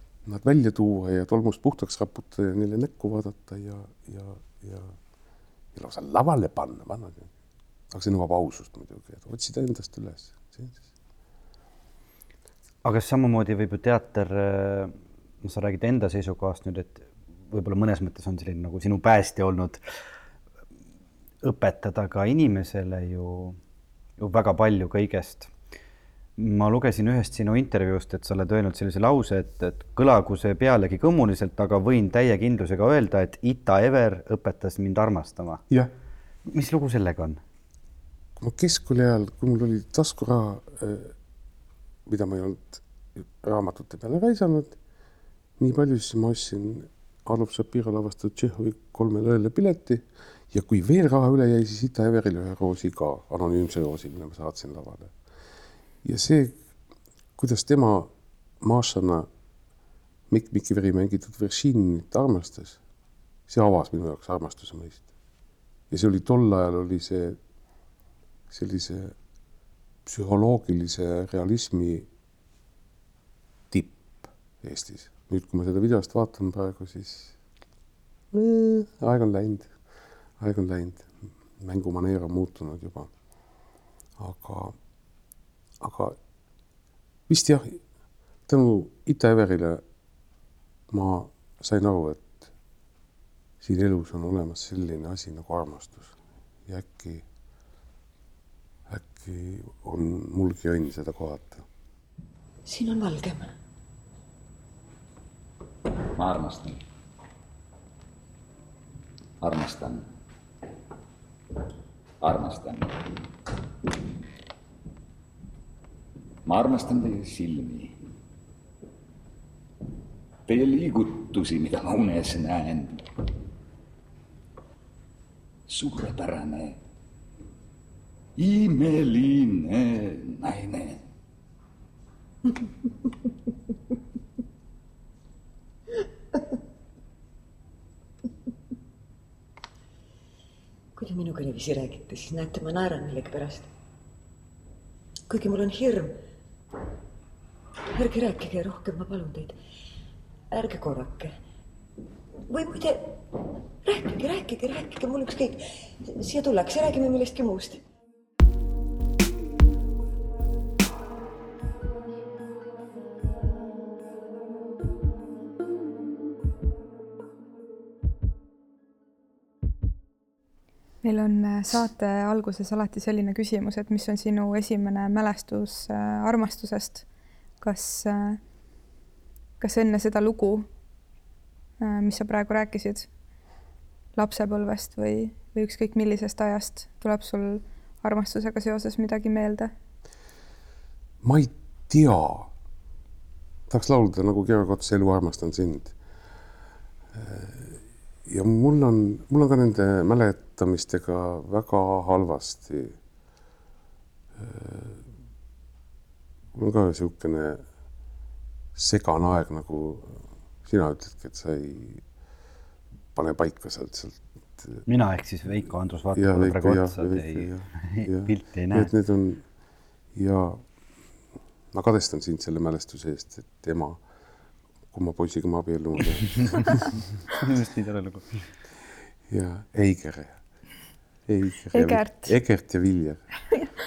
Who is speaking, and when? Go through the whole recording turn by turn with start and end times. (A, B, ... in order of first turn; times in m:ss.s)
0:00.3-0:05.0 A
0:05.7-0:07.3 A
0:07.9-0:10.8 A
0:12.8-0:19.8 B
0:21.4-0:23.6 B
0:24.2-0:25.5 B
0:26.4-0:35.6 B
0:36.4-0:37.4 B
0:38.4-0:41.1 A
0:42.1-0:44.8 A
0:45.6-0:55.1 A
0:56.0-0:56.6 A
0:57.4-0:58.1 A
0:58.6-0:59.3 A
1:00.3-1:02.8 A
1:03.5-1:05.0 A
1:05.9-1:07.4 A
1:08.5-1:09.1 A
1:10.1-1:12.1 A
1:13.7-1:17.3 A
1:18.3-1:19.7 A
1:20.4-1:23.1 A
1:24.2-1:24.8 A
1:25.8-1:26.2 A
1:27.3-1:27.8 A
1:28.5-1:29.8 A
1:30.9-1:32.5 A
1:33.6-1:36.2 A
1:36.7-1:37.2 A
1:38.9-1:41.6 A
1:42.7-1:43.5 C
1:46.1-1:46.8 D
1:49.4-1:50.0 D
1:52.2-1:53.1 D
1:56.5-1:58.0 D
2:00.5-2:03.0 D
2:05.7-2:06.8 D
2:08.4-2:11.0 D
2:21.0-2:23.7 C
2:25.3-2:26.2 C
2:27.9-2:29.6 C
2:30.5-2:31.4 C
2:32.5-2:33.2 C
2:33.8-2:37.8 C
2:51.0-2:57.0 E
2:57.6-2:58.4 E
2:59.6-3:00.7 E
3:01.8-3:03.1 E
3:04.2-3:09.7 E
3:11.2-3:12.5 A
3:13.7-3:15.9 A
3:17.1-3:23.0 A
3:24.4-3:25.0 A
3:26.5-3:27.6 A
3:28.8-3:32.0 A
3:33.2-3:34.8 A
3:34.9-3:38.9 B
3:36.1-3:39.4 A
3:40.2-3:40.6 A
3:41.7-3:44.0 A
3:44.9-3:46.9 A
3:47.3-3:48.4 B
3:49.3-3:50.4 A
3:51.3-3:53.2 A
3:51.7-3:52.3 E